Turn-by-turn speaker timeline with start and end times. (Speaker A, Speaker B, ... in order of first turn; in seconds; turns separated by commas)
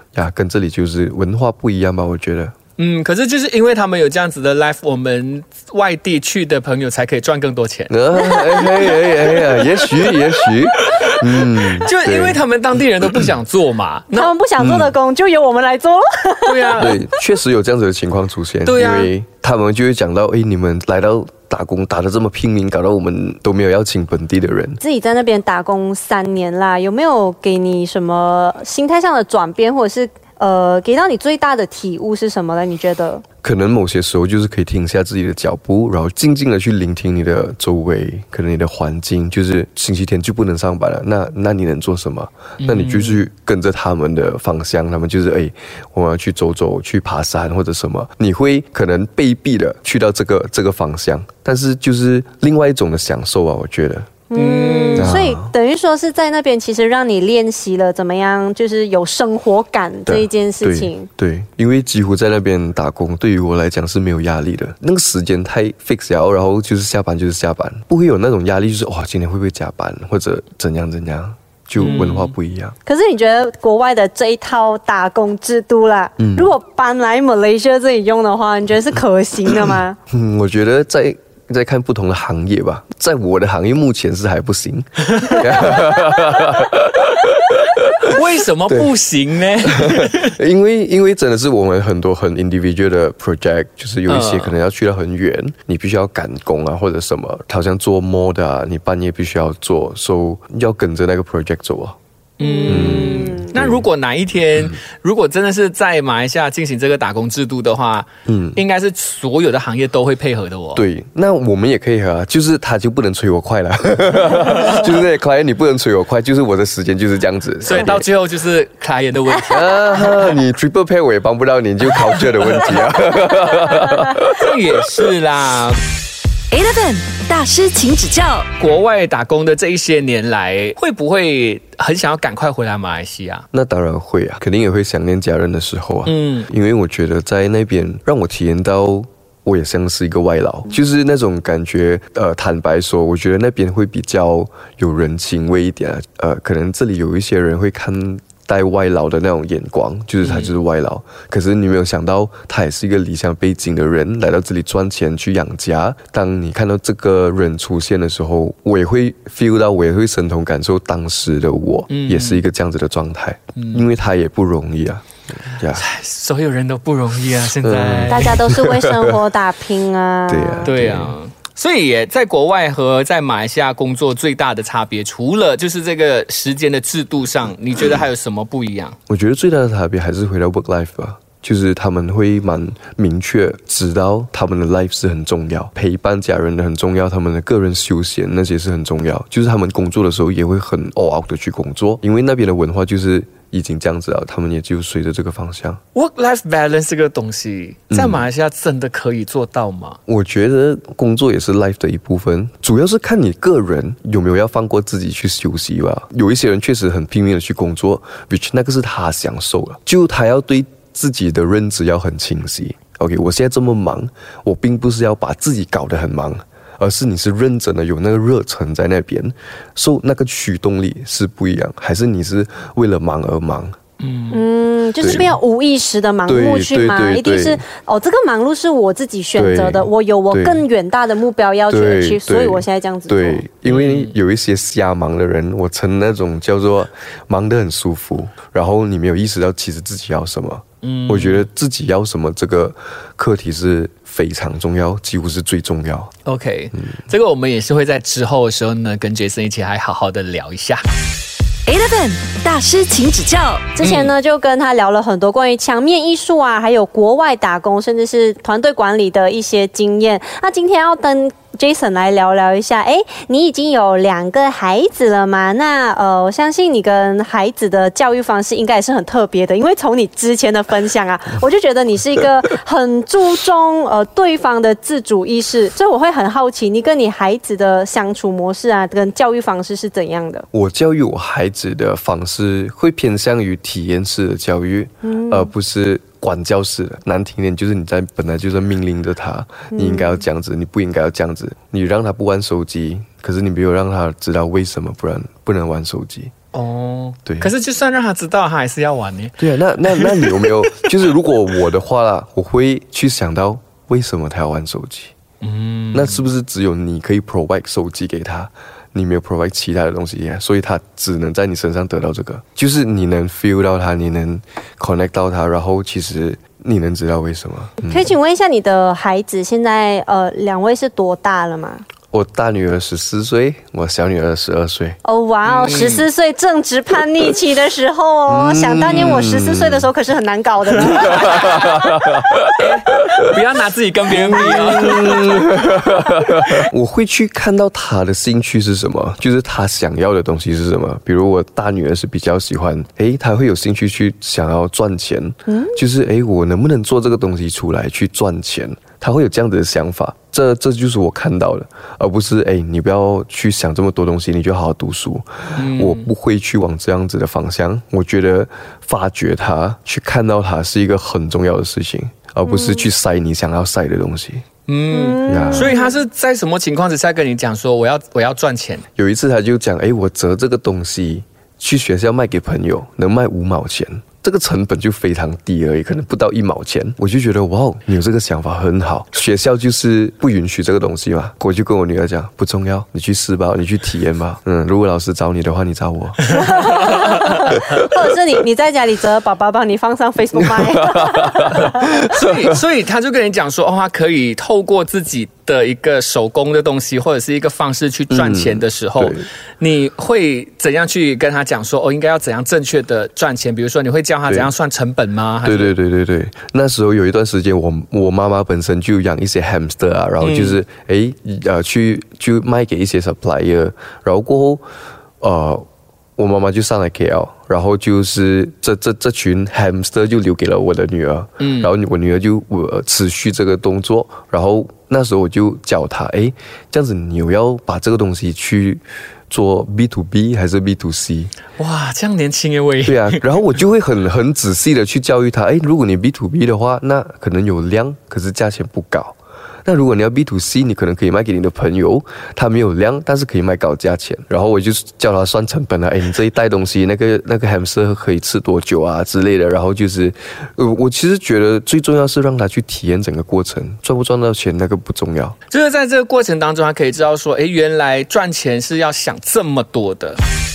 Speaker A: 0.1-2.5, Speaker B: 2.8-14.3, Speaker A: 7.9-12.4, Speaker C: 14.1-16.8, Speaker A: 14.6-15.0, Speaker B: 16.5-17.0, Speaker A: 16.8-24.8, Speaker B: 18.6-19.1, Speaker C: 24.8-33.2, Speaker A: 33.4-54.1, Speaker B: 42.6-43.2, Speaker C: 54.3-61.1, Speaker B: 54.3-55.2, Speaker A: 55.0-55.5, Speaker A: 60.1-72.8, Speaker B: 71.8-72.3, Speaker C: 72.8-80.0, Speaker A: 76.2-76.5, Speaker A: 79.5-88.9, Speaker B: 85.2-85.8, Speaker B: 88.0-90.4, Speaker A: 89.6-102.0, Speaker B: 94.1-94.5, Speaker B: 102.4-110.8, Speaker C: 102.4-103.5, Speaker A: 102.7-103.9, Speaker A: 108.3-108.6, Speaker A: 110.8-118.1, Speaker B: 114.4-114.8, Speaker B: 117.6-120.4, Speaker A: 119.5-125.0, Speaker B: 122.0-122.7, Speaker B: 124.3-125.8, Speaker D: 126.5-128.5, Speaker B: 128.6-133.4, Speaker A: 133.5-165.8, Speaker B: 136.1-136.5, Speaker B: 150.2-150.5, Speaker B: 161.9-162.4, Speaker B: 163.6-163.9, Speaker B: 165.7-168.4, Speaker A: 167.6-169.3, Speaker C: 168.1-170.8, Speaker A: 170.3-171.2, Speaker B: 170.7-179.0, Speaker A: 179.1-195.8, Speaker B: 195.9-200.0, Speaker A: 197.9-198.3, Speaker A: 200.1-223.8, Speaker B: 224.0-224.4, Speaker C: 224.3-233.4, Speaker A: 225.0-225.4, Speaker A: 226.3-227.6, Speaker A: 229.4-230.6, Speaker A: 231.7-246.1, Speaker B: 233.7-234.1, Speaker B: 240.8-241.5, Speaker B: 246.3-250.8, Speaker D: 251.7-253.7, Speaker C: 253.8-280.5, Speaker B: 253.8-254.1, Speaker A: 280.5-296.3, Speaker C: 285.0-285.5, Speaker C: 289.7-290.1, Speaker B: 296.5-299.4, Speaker A: 299.4-305.1, Speaker B: 299.9-300.9, Speaker B: 305.4-306.2, Speaker A: 305.9-318.1, Speaker C: 317.8-321.8, Speaker A: 322.1-325.0, Speaker C: 325.0-331.7, Speaker B: 325.4-326.1, Speaker A: 328.3-329.9, Speaker B: 330.8-331.8, Speaker A: 330.8-333.4, Speaker B: 332.6-335.6, Speaker A: 334.1-364.4, Speaker C: 334.7-335.0, Speaker C: 345.5-345.8, Speaker B: 355.6-356.1, Speaker C: 362.5-362.9, Speaker B: 364.7-368.8, Speaker C: 364.9-365.9, Speaker A: 365.3-365.8, Speaker A: 369.0-386.5, Speaker C: 386.3-392.0, Speaker A: 390.4-392.6, Speaker B: 392.0-405.7, Speaker A: 398.1-399.3, Speaker A: 405.4-414.6, Speaker B: 410.2-410.6, Speaker A: 415.2-415.6, Speaker A: 416.2-431.4, Speaker B: 421.4-421.7, Speaker B: 431.6-433.2, Speaker A: 432.9-455.4, Speaker B: 455.5-460.2